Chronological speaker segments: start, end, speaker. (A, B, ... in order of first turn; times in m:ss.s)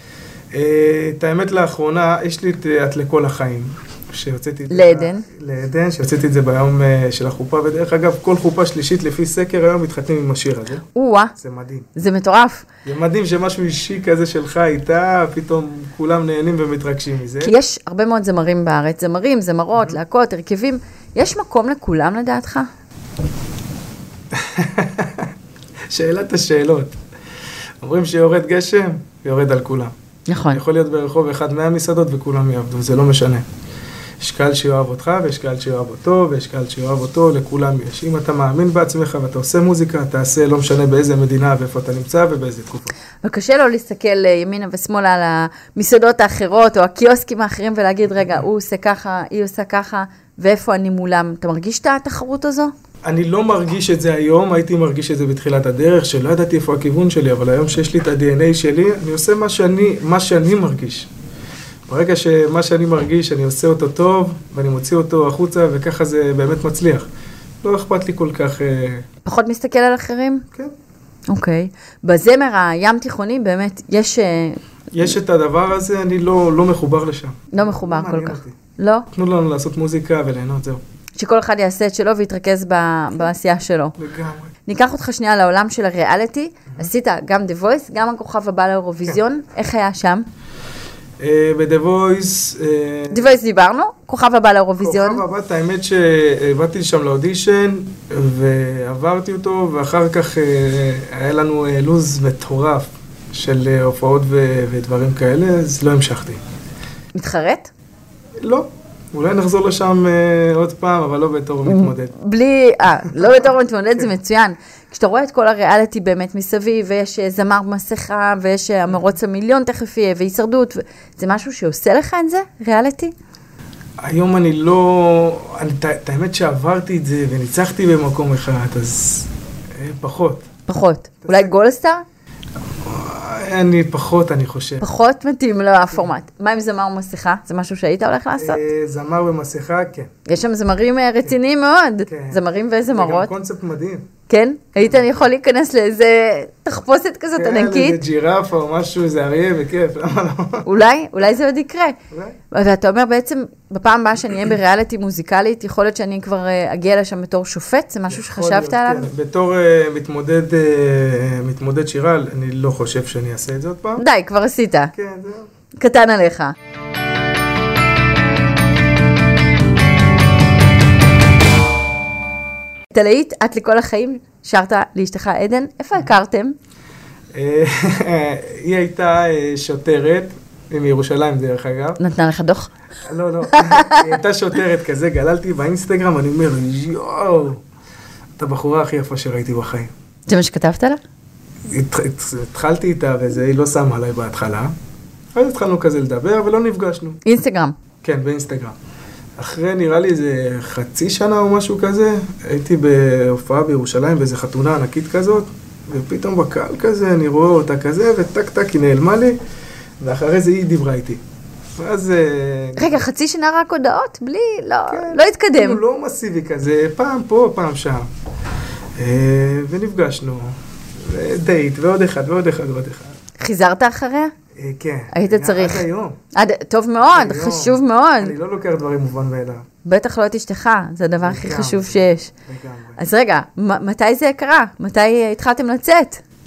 0:00.5-0:11.9 A
0:04.7-0:05.2 B
0:10.9-0:11.3 B
0:11.9-0:12.7 B
0:12.8-0:17.5 A
0:17.4-0:22.7 B
0:24.3-0:25.3 A
0:25.9-0:27.0 A
0:27.8-0:29.9 A
0:30.3-0:30.6 B
0:30.5-0:33.5 A
0:34.2-0:42.9 A
0:43.2-0:52.7 B
0:53.0-1:01.1 A
1:01.9-1:07.1 A
1:07.6-1:09.0 A
1:09.2-1:10.4 B
1:11.3-1:14.6 B
1:14.9-1:18.6 A
1:17.5-1:19.1 B
1:19.1-1:20.8 A
1:21.2-1:24.0 B
1:24.0-1:24.5 A
1:24.6-1:30.2 B
1:31.2-1:33.4 A
1:33.1-1:35.2 B
1:34.8-1:46.4 A
1:47.1-1:47.7 B
1:48.4-1:52.1 A
1:51.6-2:03.1 B
1:53.1-1:53.5 A
2:04.0-2:10.5 A
2:10.7-2:12.0 B
2:11.2-2:11.5 A
2:12.8-2:14.8 A
2:14.8-2:18.6 B
2:18.4-2:20.1 A
2:20.3-2:23.3 B
2:22.1-2:24.1 A
2:24.3-2:28.0 B
2:24.8-2:25.3 A
2:27.4-2:30.9 A
2:30.6-2:32.0 B
2:32.1-2:32.4 A
2:32.5-2:39.1 B
2:38.1-2:44.0 A
2:44.0-2:44.9 B
2:44.9-2:45.5 A
2:45.8-2:46.6 B
2:52.9-2:56.6 B
2:57.3-3:02.0 A
3:02.0-3:02.7 B
3:03.0-3:07.6 A
3:03.5-3:04.2 B
3:08.4-3:09.9 A
3:10.3-3:11.0 B
3:11.6-3:14.7 A
3:15.3-3:17.2 A
3:17.2-3:17.7 B
3:18.0-3:18.7 A
3:19.4-3:29.4 A
3:30.0-3:31.2 A
3:31.8-3:33.0 A
3:32.8-3:35.8 B
3:34.9-3:38.1 A
3:39.0-3:43.1 A
3:43.4-3:44.3 B
3:44.5-3:46.2 A
3:45.1-3:48.4 B
3:47.0-3:49.6 A
3:49.8-3:52.3 B
3:51.2-3:53.0 A
3:53.0-3:56.2 B